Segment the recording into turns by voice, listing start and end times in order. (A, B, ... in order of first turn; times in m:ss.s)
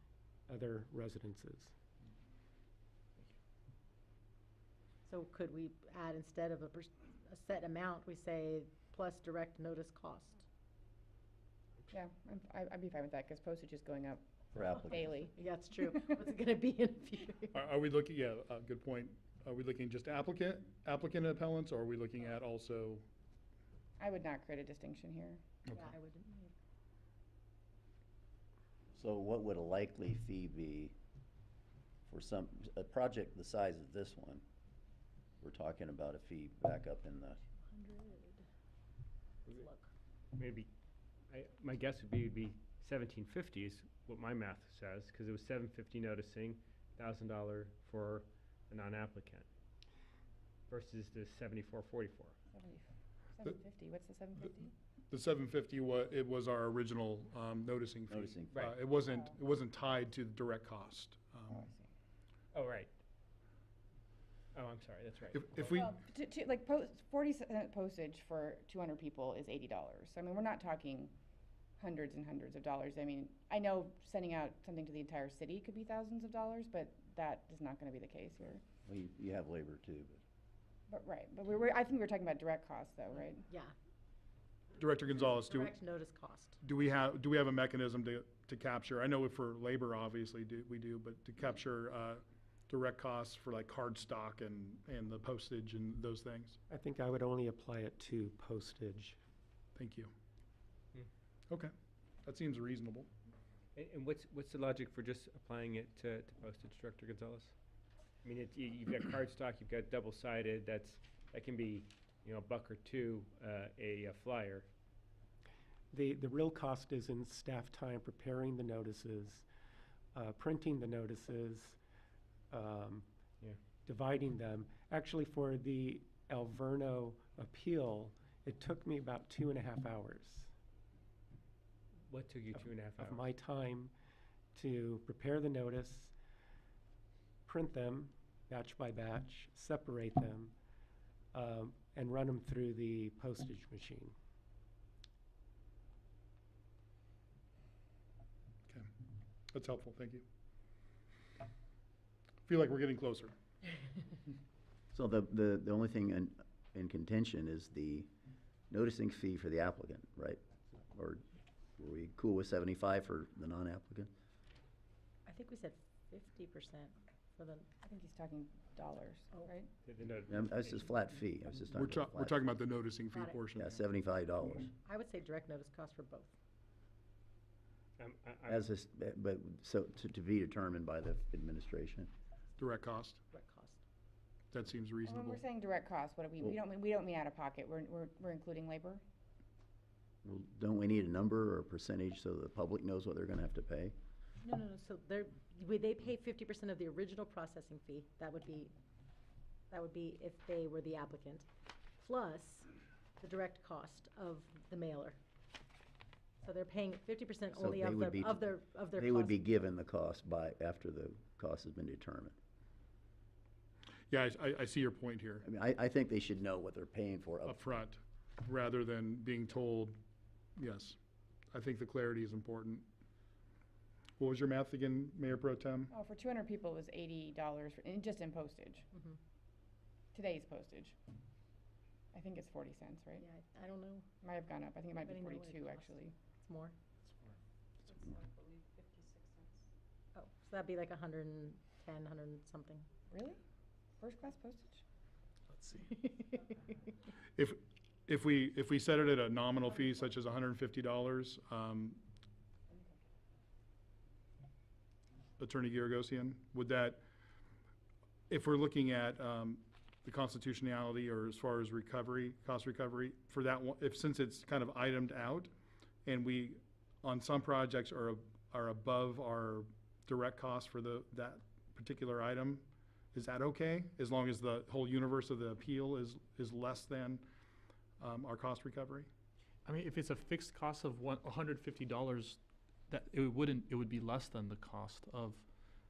0:00.5-0:01.7 A
0:05.1-0:10.4 B
0:11.9-0:15.3 C
0:14.5-0:15.2 D
0:15.3-0:17.6 B
0:17.5-0:23.0 E
0:24.0-0:25.4 C
0:25.7-0:26.5 B
0:29.0-0:31.0 D
0:32.1-0:34.4 D
0:35.4-0:37.4 D
0:37.6-0:38.4 B
0:39.5-0:39.9 B
0:40.4-0:40.7 F
0:41.3-0:49.5 F
0:50.7-0:52.4 F
0:52.5-0:54.7 C
0:55.1-1:01.6 E
0:58.1-0:58.5 D
0:58.5-0:58.8 F
1:01.5-1:01.9 C
1:02.5-1:02.9 F
1:04.6-1:05.7 F
1:05.3-1:05.9 E
1:05.7-1:11.1 C
1:11.8-1:18.6 C
1:18.9-1:20.2 D
1:20.9-1:23.5 C
1:24.8-1:25.8 E
1:25.1-1:26.6 B
1:26.6-1:36.6 E
1:36.7-1:39.2 A
1:39.8-1:40.1 E
1:42.2-1:43.1 E
1:43.8-1:47.5 F
1:48.2-1:54.7 F
1:55.9-1:59.5 A
2:00.1-2:01.8 A
2:02.5-2:03.1 A
2:03.9-2:10.5 A
2:12.1-2:13.3 F
2:12.6-2:13.9 A
2:14.6-2:16.1 A
2:17.5-2:20.5 A
2:21.3-2:24.2 A
2:29.5-2:30.2 E
2:32.5-2:33.3 E
2:34.9-2:38.1 D
2:38.7-2:41.2 D
2:41.8-2:44.1 D
2:45.3-2:47.7 B
2:47.8-2:49.7 C
2:49.8-2:50.9 F
2:50.3-2:52.4 D
2:51.8-2:53.8 E
2:53.1-2:53.4 B
2:53.5-2:54.7 D
2:54.8-2:56.3 B
2:58.0-2:58.7 F
2:58.5-3:02.1 D
3:02.6-3:03.2 E
3:03.3-3:03.8 B
3:04.5-3:05.4 E
3:05.0-3:09.0 C
3:10.2-3:14.0 D
3:14.4-3:18.7 B
3:19.7-3:21.5 B
3:22.0-3:22.7 B
3:23.2-3:25.2 B
3:26.4-3:29.6 B
3:27.6-3:28.4 D
3:29.0-3:32.4 D
3:34.1-3:35.4 E
3:35.4-3:37.6 D
3:37.4-3:40.0 E
3:40.6-3:41.0 E
3:41.5-3:42.9 E
3:44.2-3:45.9 E
3:45.9-3:48.9 C
3:50.1-3:51.0 C
3:52.1-3:53.2 C
3:53.2-3:54.1 B
3:54.2-3:56.1 C
3:55.0-3:56.8 B
4:00.2-4:02.9 B
4:03.1-4:03.4 C
4:04.0-4:04.8 C
4:05.9-4:06.6 B
4:07.4-4:12.0 E
4:15.4-4:17.0 E
4:18.3-4:25.5 E
4:26.0-4:37.3 E
4:38.0-4:39.1 E
4:39.6-4:45.4 G